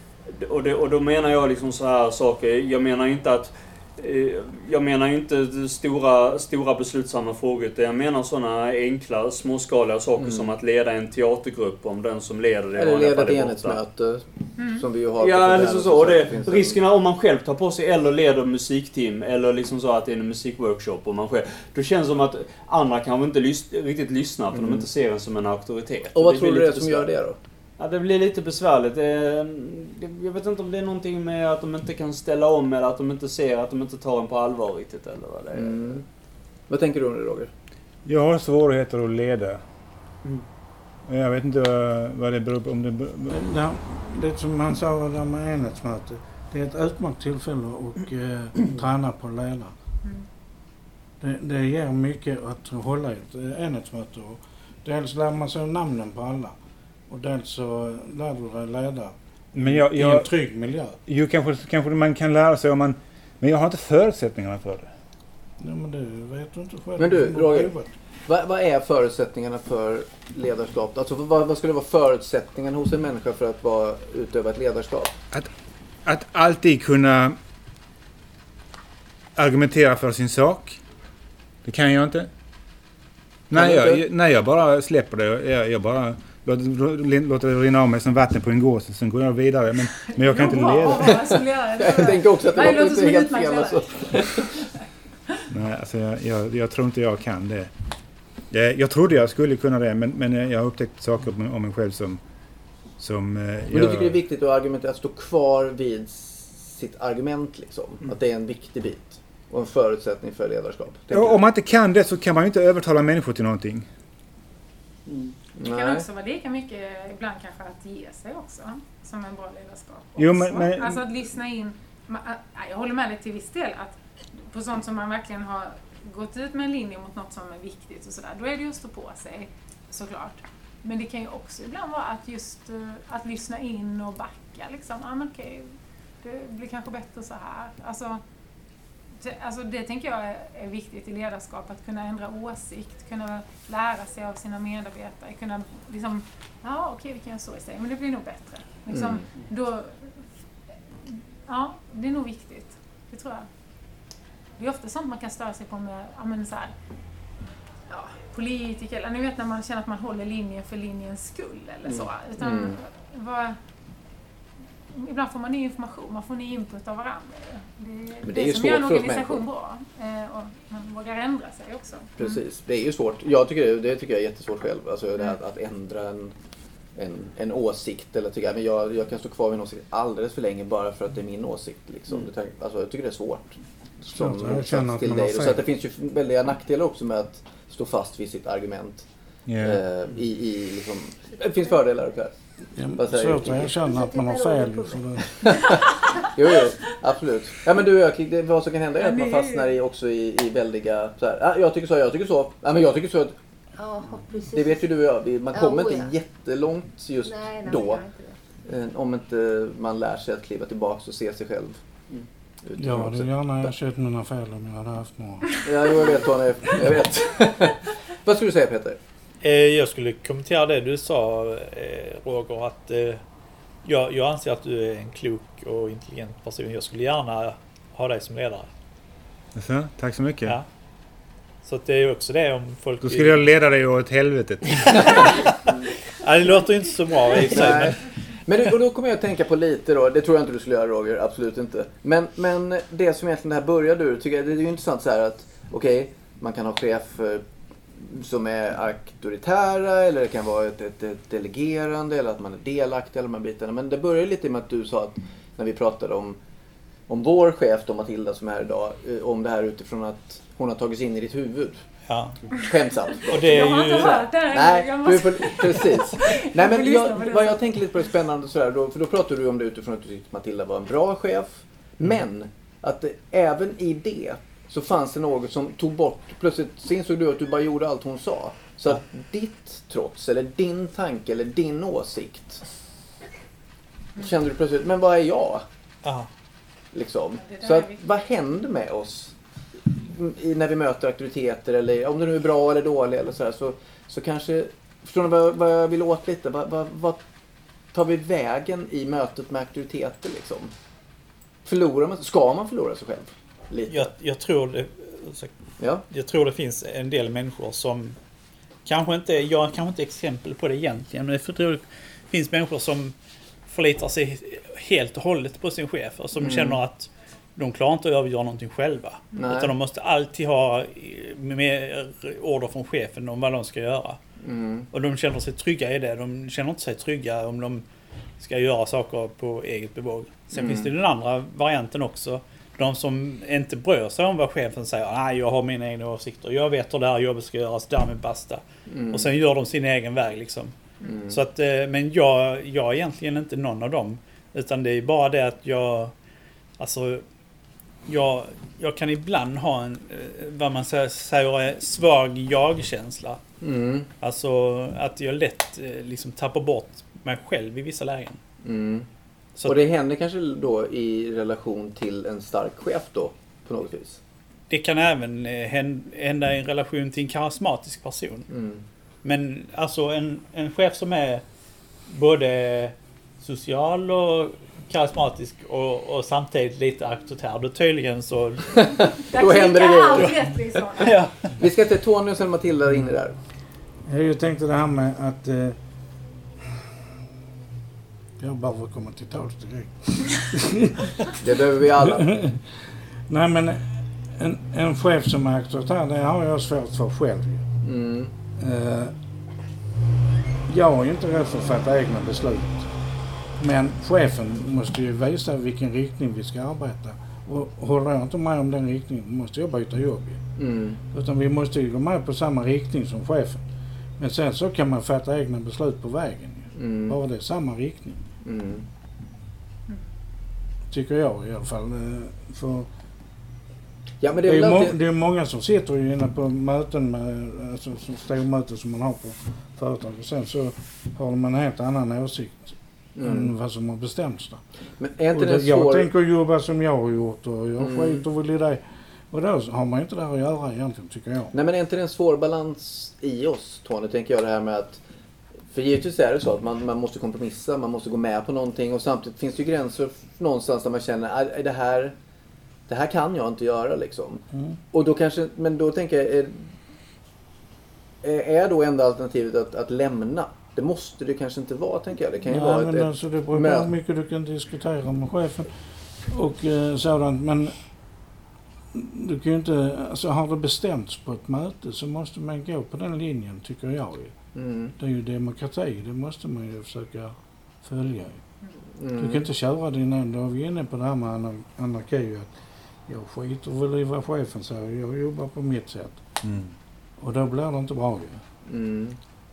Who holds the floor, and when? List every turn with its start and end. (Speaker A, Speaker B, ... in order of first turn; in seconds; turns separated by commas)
Speaker A: 0.3-13.8, Speaker B: 10.2-10.5, Speaker B: 12.8-16.8, Speaker C: 14.6-14.8, Speaker A: 15.2-27.1, Speaker B: 26.1-27.4, Speaker A: 27.8-36.0, Speaker B: 35.5-36.0, Speaker B: 36.7-37.5, Speaker D: 38.0-39.6, Speaker D: 41.0-43.4, Speaker E: 43.3-49.7, Speaker E: 51.2-56.5, Speaker E: 57.1-61.0, Speaker D: 59.5-60.3, Speaker D: 61.0-64.9, Speaker E: 65.6-67.9, Speaker B: 67.0-67.7, Speaker B: 68.3-75.2, Speaker D: 76.0-77.4, Speaker D: 79.3-80.8, Speaker D: 81.6-82.3, Speaker D: 83.5-91.3, Speaker B: 83.5-84.0, Speaker C: 90.0-94.8, Speaker B: 91.8-94.5, Speaker D: 95.5-97.7, Speaker D: 98.5-102.2, Speaker D: 103.0-104.2, Speaker B: 103.7-111.4, Speaker D: 111.1-113.9, Speaker A: 115.1-115.3, Speaker B: 115.6-116.0, Speaker C: 115.6-138.2, Speaker D: 120.2-121.0, Speaker C: 139.2-150.2, Speaker B: 148.9-149.2, Speaker C: 150.9-153.5, Speaker C: 154.6-156.7, Speaker C: 157.9-163.6, Speaker B: 161.9-162.8, Speaker C: 164.9-172.4, Speaker B: 168.2-169.4, Speaker B: 172.2-176.3, Speaker B: 176.9-189.1, Speaker E: 184.1-185.6, Speaker D: 189.5-189.8, Speaker B: 189.6-192.3, Speaker E: 192.7-195.5, Speaker B: 192.9-193.8, Speaker F: 193.8-195.0, Speaker B: 195.4-195.8, Speaker B: 196.3-203.3, Speaker C: 199.0-199.7, Speaker F: 203.8-204.8, Speaker B: 204.5-208.0, Speaker F: 205.5-206.1, Speaker F: 207.2-208.3, Speaker B: 208.7-211.8, Speaker B: 212.6-213.7, Speaker E: 212.8-215.6, Speaker B: 215.6-219.0, Speaker G: 219.4-223.2, Speaker G: 223.8-228.7, Speaker D: 229.5-230.6, Speaker G: 231.6-233.4, Speaker D: 233.0-235.3, Speaker G: 234.7-235.6, Speaker G: 236.2-238.0, Speaker B: 237.5-256.4, Speaker B: 257.1-261.8, Speaker G: 262.1-262.5, Speaker B: 262.6-282.6, Speaker G: 263.3-264.2, Speaker C: 263.3-267.6, Speaker B: 284.2-285.6, Speaker G: 286.0-286.3, Speaker B: 286.9-289.3, Speaker C: 287.4-288.0, Speaker B: 289.9-297.2, Speaker B: 297.9-300.7, Speaker B: 301.6-304.1, Speaker G: 303.9-305.5, Speaker B: 305.8-306.0, Speaker G: 306.1-308.1, Speaker G: 308.8-313.1, Speaker G: 313.7-324.2, Speaker B: 316.4-316.8, Speaker B: 319.4-319.7, Speaker B: 324.4-324.9, Speaker G: 324.9-327.8, Speaker G: 328.4-340.7, Speaker B: 330.5-330.9, Speaker B: 338.9-339.3, Speaker B: 341.0-341.4, Speaker G: 341.3-346.1, Speaker G: 346.8-347.2, Speaker G: 348.1-353.4, Speaker B: 353.6-354.1, Speaker G: 354.2-358.4, Speaker B: 358.6-359.1, Speaker B: 359.6-364.2, Speaker G: 364.7-368.5, Speaker B: 368.5-368.8, Speaker G: 369.2-371.4, Speaker G: 372.1-379.1, Speaker B: 378.7-380.3, Speaker C: 379.2-381.2, Speaker G: 381.0-381.6, Speaker B: 381.6-383.4, Speaker E: 384.0-385.8, Speaker E: 388.4-391.1, Speaker B: 391.4-392.4, Speaker E: 392.0-397.6, Speaker B: 397.8-398.3, Speaker E: 398.6-399.1, Speaker E: 400.6-402.9, Speaker E: 403.6-410.4, Speaker B: 410.6-411.0, Speaker E: 411.1-413.6, Speaker E: 414.2-418.2, Speaker B: 416.8-417.2, Speaker B: 418.4-418.9, Speaker E: 420.9-422.9, Speaker B: 424.2-425.0, Speaker E: 424.4-434.6, Speaker B: 433.1-433.5, Speaker B: 435.0-436.1, Speaker E: 435.3-441.5, Speaker B: 437.8-438.2, Speaker B: 441.5-445.0, Speaker B: 445.7-452.1, Speaker B: 452.9-456.8, Speaker E: 454.5-454.8, Speaker B: 458.2-463.9, Speaker E: 462.4-467.8, Speaker E: 468.9-474.4, Speaker B: 474.5-474.9, Speaker E: 475.0-478.4, Speaker B: 478.9-479.5, Speaker E: 479.1-482.5, Speaker E: 483.1-486.2, Speaker D: 486.4-486.7, Speaker E: 487.2-488.4, Speaker B: 488.6-489.2